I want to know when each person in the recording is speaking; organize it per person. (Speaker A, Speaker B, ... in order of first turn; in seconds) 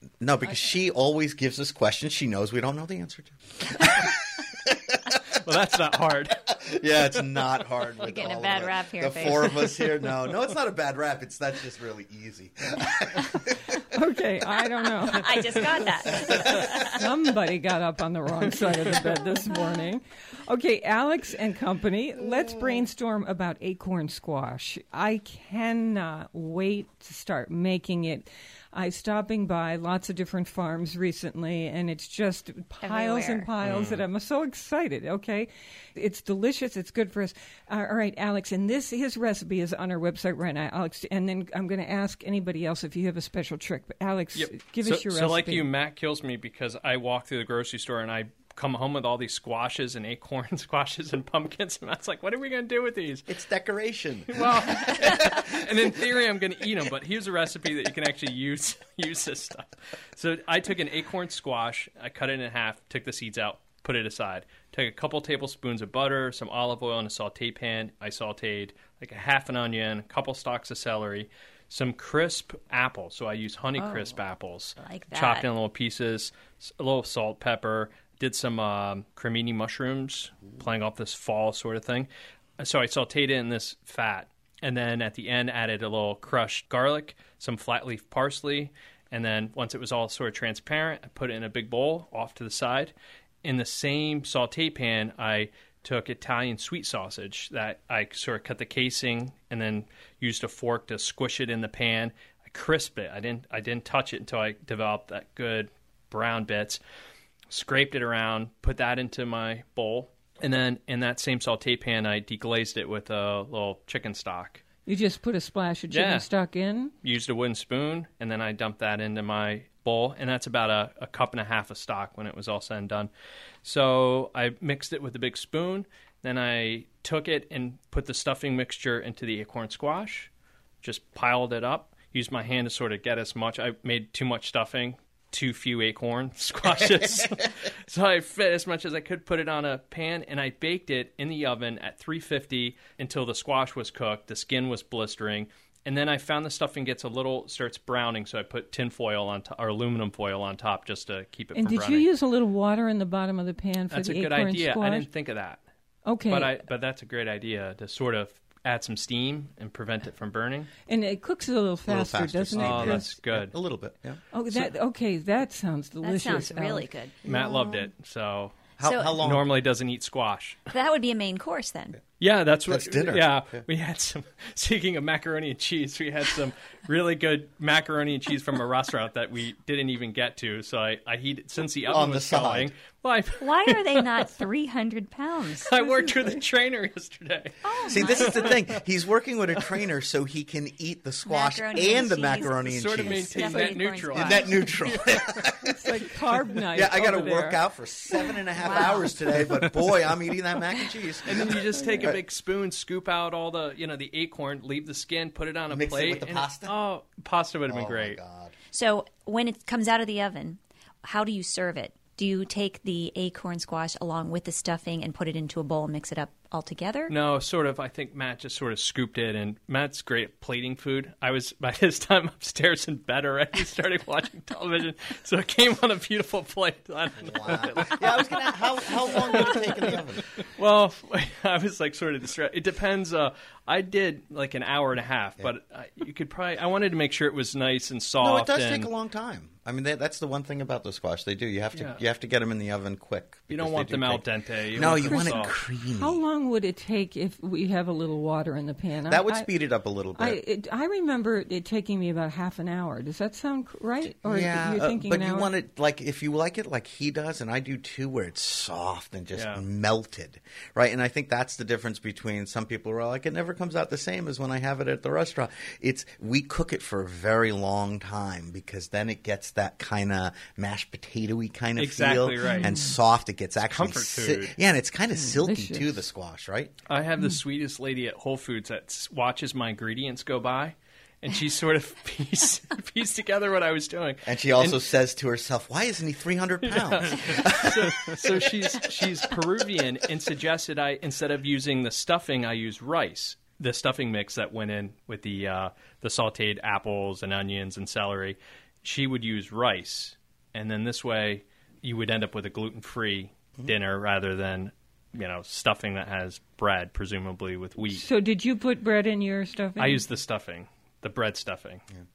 Speaker A: 0.2-5.4, 6.5-13.8, 16.1-17.1, 53.3-56.1, 161.9-164.2, 167.2-167.6, 168.8-169.4, 172.7-173.6, 181.9-182.7, 187.8-195.9, 196.7-202.2, 205.7-206.8, 207.7-208.5, 227.2-230.2, 238.2-246.2, 249.1-250.4, 254.1-276.7, 284.3-288.6
Speaker B: 5.4-7.2, 33.6-34.0, 44.4-53.3, 54.3-82.1, 82.6-106.8, 107.5-114.6, 115.9-116.3, 117.0-123.1, 123.6-130.3, 130.8-152.1, 153.9-155.6, 156.3-160.7, 162.6-163.5, 167.3-170.6, 172.2-184.3, 185.6-188.8, 192.4-195.3, 201.2-208.2, 217.1-238.9, 243.5-245.5, 259.3-259.6, 271.8-272.8, 273.7-274.6, 276.9-284.8, 286.6-308.0, 309.8-311.8
Speaker C: 8.0-9.8, 15.0-17.0, 32.8-33.5, 73.8-74.2, 74.8-75.5, 166.0-167.7, 168.8-169.2, 170.7-172.0, 183.4-186.4, 187.6-188.6, 191.3-195.1, 198.6-199.2, 208.7-217.1
Speaker D: 13.9-15.4, 16.9-45.7, 114.9-116.9, 151.5-155.1, 156.1-156.6, 160.9-163.1, 164.3-166.9, 195.7-197.6, 244.9-249.5, 250.2-255.5, 272.6-272.9, 275.1-276.0, 307.8-310.0